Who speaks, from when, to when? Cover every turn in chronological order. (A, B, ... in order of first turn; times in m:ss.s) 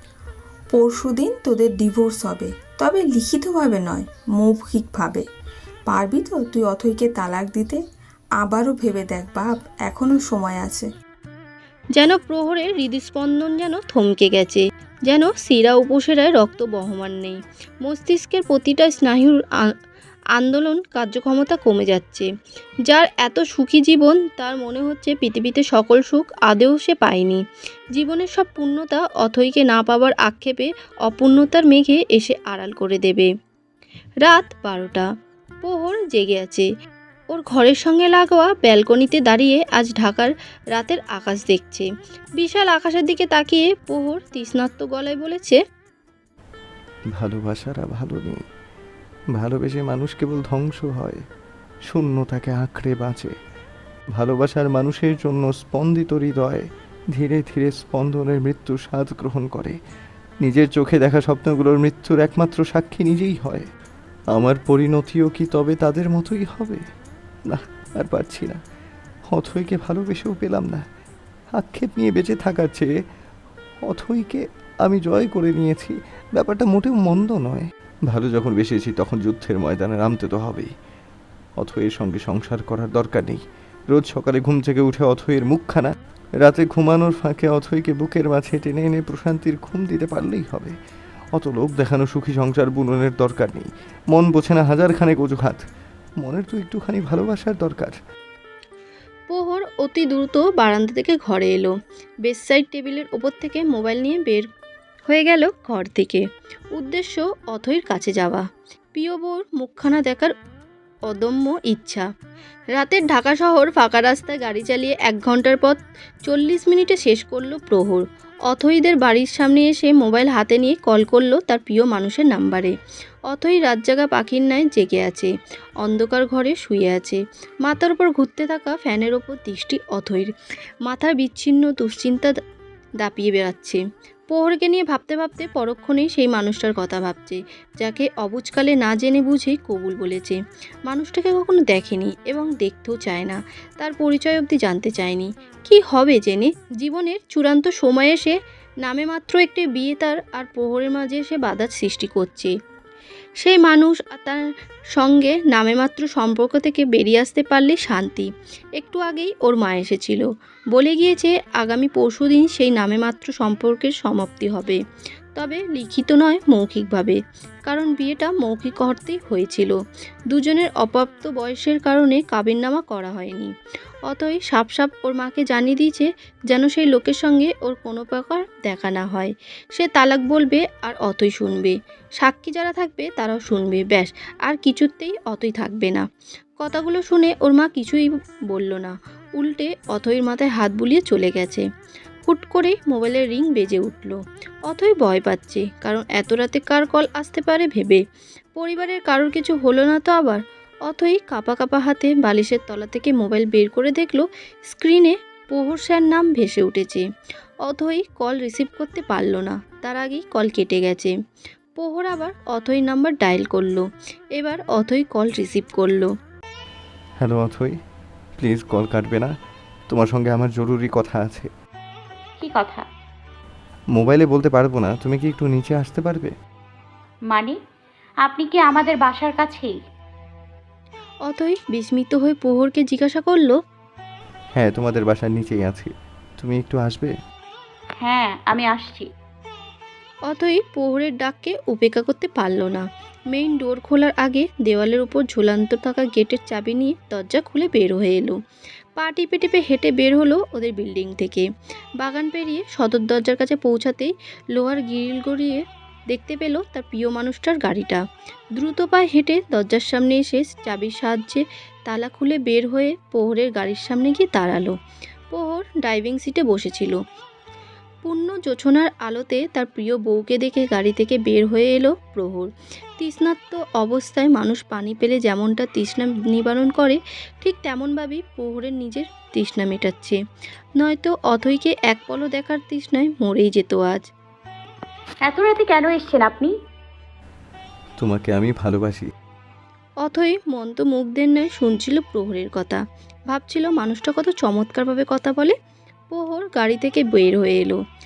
0:00.7-0:05.2 A
0:05.9-0:07.8 A
0:08.4-0:10.9 A
0:12.0-0:19.7 B
0:20.4-0:22.3 B
0:22.9-0:27.4 B
0:28.0-0:33.3 B
0:34.2-0:35.1 B
0:35.6-0:36.7 B
0:37.3-0:41.9 B
0:42.4-0:45.6 B
0:47.2-0:48.4 C
0:49.4-0:51.2 C
0:51.9-0:53.3 C
0:54.2-0:59.8 C
1:00.4-1:03.7 C
1:04.3-1:06.8 C
1:07.5-1:08.6 C
1:09.3-1:10.8 C
1:11.6-1:12.9 C
1:13.9-1:20.7 C
1:21.6-1:25.9 C
1:26.4-1:30.7 C
1:31.4-1:35.6 C
1:36.2-1:38.0 C
1:39.3-1:41.7 B
1:42.2-1:44.5 B
1:45.1-1:48.4 B
1:49.0-1:50.3 B
1:51.1-1:52.1 B
1:52.7-2:02.7 B
2:03.3-2:05.3 B
2:05.8-2:10.3 B
2:10.9-2:12.3 B
2:13.0-2:32.5 B
2:33.4-2:34.4 B
2:34.9-2:44.8 B
2:45.4-2:49.8 B
2:50.3-2:53.5 B
2:54.1-3:06.0 B
3:06.6-3:11.6 B
3:12.2-3:18.0 B
3:18.6-3:27.0 B
3:27.6-3:31.1 B
3:31.8-3:36.1 B
3:37.2-3:37.8 C
3:38.4-3:39.3 C
3:39.9-3:41.5 C
3:42.4-3:42.8 D
3:44.0-3:46.3 C
3:47.3-3:47.6 D
3:48.2-3:49.7 D
3:51.3-3:53.5 B
3:54.6-3:57.1 C
3:58.0-3:59.1 D
4:00.3-4:08.4 B
4:09.0-4:11.5 B
4:12.0-4:15.6 B
4:16.1-4:18.0 B
4:18.6-4:24.7 B
4:25.3-4:27.0 B
4:28.0-4:40.2 B
4:40.8-4:44.1 B
4:45.2-4:46.5 D
4:48.0-4:49.1 C
4:50.0-4:52.8 B
4:53.3-4:55.5 B
4:56.1-4:57.8 B